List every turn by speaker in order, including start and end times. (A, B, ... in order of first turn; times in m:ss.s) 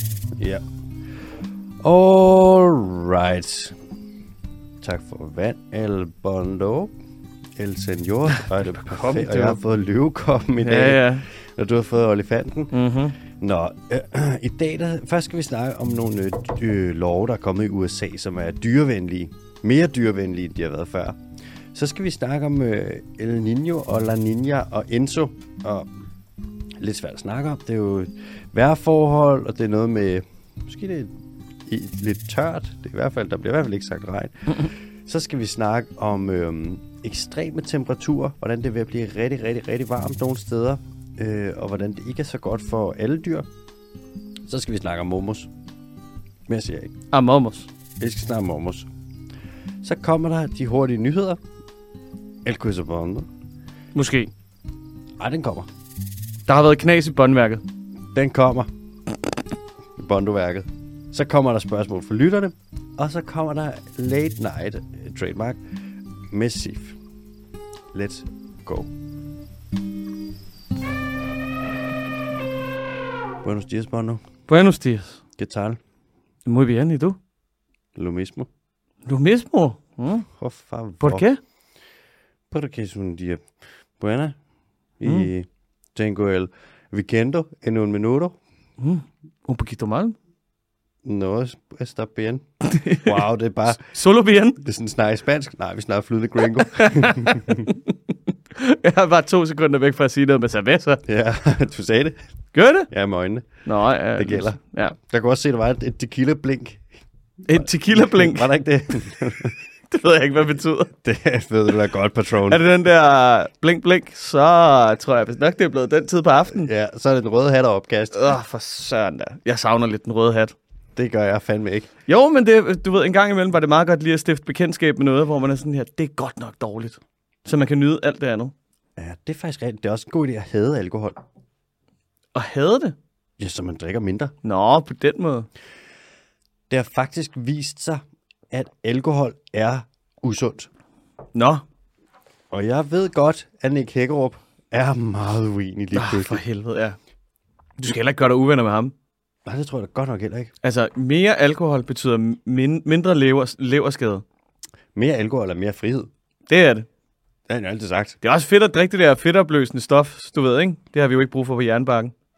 0:00.4-0:00.6 A
0:01.8-0:03.8 A
0:04.8-0:06.9 A
0:07.6-0:21.2 A
0:08.3-0:09.6 B
0:10.6-0:11.3 B
0:12.7-0:13.2 B
0:21.7-0:25.9 A
0:26.8-0:31.1 A
0:31.6-0:43.5 A
0:44.5-0:45.5 A
0:46.5-0:46.9 A
0:47.1-0:47.7 B
0:48.0-0:48.9 A
0:49.8-0:51.4 A
0:52.4-0:53.3 A
0:54.0-0:54.3 B
0:55.2-0:55.7 A
0:56.5-0:57.6 B
0:58.1-0:58.7 A
1:00.0-1:05.6 A
1:06.3-1:07.0 A
1:07.9-1:08.9 A
1:13.4-1:14.2 A
1:14.5-1:15.2 B
1:15.4-1:15.8 A
1:16.4-1:17.2 B
1:18.0-1:18.5 A
1:19.1-1:20.3 B
1:20.3-1:21.3 A
1:21.0-1:21.4 B
1:22.5-1:23.4 A
1:24.0-1:24.4 A
1:25.0-1:28.4 A
1:25.0-1:25.3 B
1:28.8-1:30.2 B
1:31.0-1:32.4 A
1:32.6-1:33.2 B
1:33.0-1:33.8 A
1:33.8-1:34.6 B
1:34.6-1:37.7 A
1:36.6-1:37.9 B
1:38.6-1:41.0 B
1:41.1-1:42.2 A
1:42.5-1:42.9 B
1:42.9-1:43.5 A
1:43.7-1:45.0 B
1:44.2-1:46.8 A
1:47.5-1:48.5 B
1:47.6-1:49.6 A
1:49.9-1:50.9 B
1:51.0-1:52.6 A
1:52.5-1:56.7 B
1:56.5-1:58.3 A
1:58.1-2:00.6 B
2:01.0-2:01.9 A
2:02.1-2:08.5 B
2:09.0-2:11.2 A
2:12.4-2:13.0 B
2:13.4-2:14.3 A
2:14.4-2:15.5 B
2:16.7-2:20.7 A
2:21.3-2:21.6 B
2:22.5-2:26.4 A
2:25.9-2:27.0 B
2:27.8-2:28.9 B
2:29.4-2:30.5 A
2:30.6-2:34.2 B
2:35.0-2:36.1 A
2:36.5-2:36.9 B
2:37.5-2:38.2 A
2:38.2-2:42.1 B